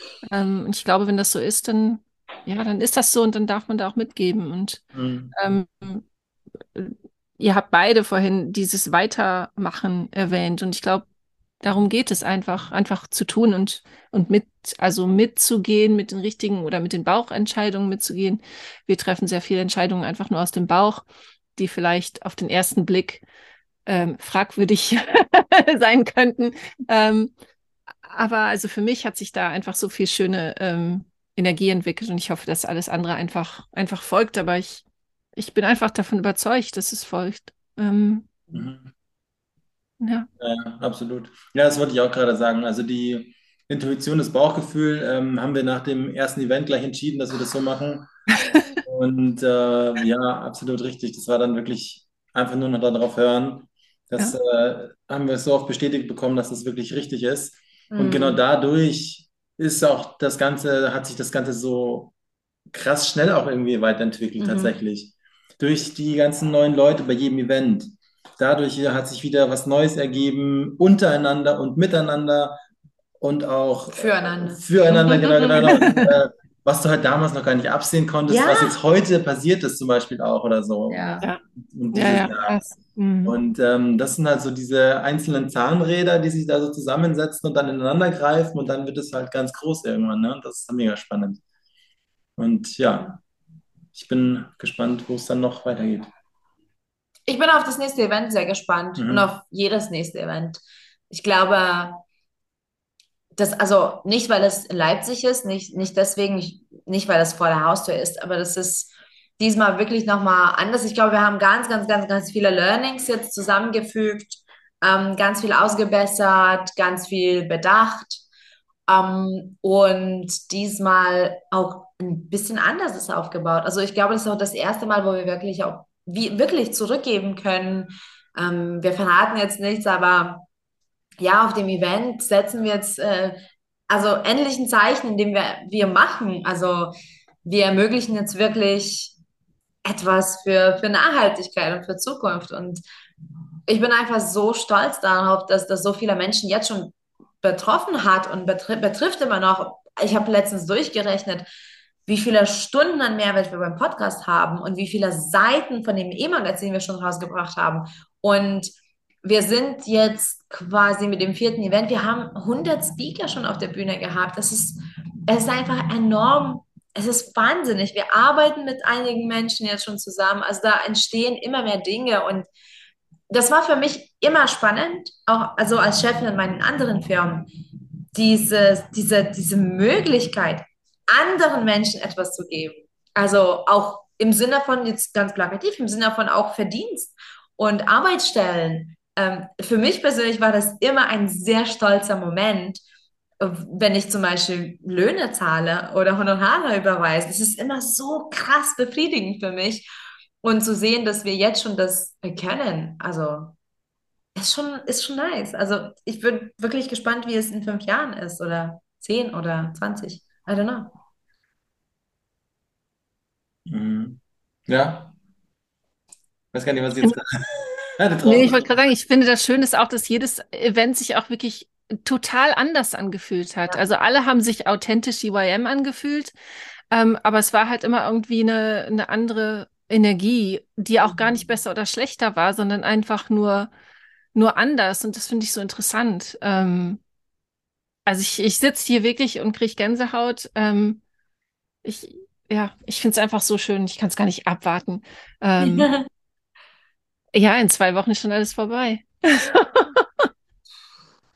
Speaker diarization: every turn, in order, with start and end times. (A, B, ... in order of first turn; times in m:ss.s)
0:00.2-0:06.0 A
0:04.9-0:05.3 B
0:06.7-0:11.0 A
0:11.6-0:21.0 A
0:21.6-0:23.2 A
0:23.8-0:27.3 A
0:28.0-0:34.8 A
0:35.4-0:38.3 A
0:38.5-0:38.9 B
0:40.0-0:40.3 A
0:40.4-0:48.1 B
0:48.8-1:02.1 B
0:57.9-0:58.4 C
1:02.7-1:12.6 B
1:04.4-1:04.7 C
1:13.2-1:21.0 B
1:13.9-1:15.9 C
1:15.2-1:16.1 A
1:18.3-1:18.8 C
1:20.9-1:21.2 C
1:21.6-1:22.6 B
1:21.9-1:23.3 A
1:23.2-1:31.4 B
1:32.4-1:33.2 B
1:33.9-1:36.1 B
1:37.3-1:42.0 C
1:39.0-1:39.3 B
1:43.4-1:58.2 C
1:58.9-2:10.4 C
2:11.2-2:19.1 C
2:19.8-2:22.8 C
2:23.7-2:31.5 C
2:32.0-2:38.7 C
2:39.2-2:52.5 C
2:53.3-2:57.5 C
2:58.1-3:12.8 C
3:13.4-3:19.9 C
3:20.4-3:23.5 C
3:24.3-3:30.9 C
3:33.7-3:35.1 B
3:36.5-3:38.7 B
3:38.2-3:46.3 A
3:46.9-3:53.7 A
3:54.3-3:57.0 A
3:58.0-4:01.0 A
4:01.8-4:05.9 A
4:05.6-4:06.1 C
4:07.3-4:10.3 A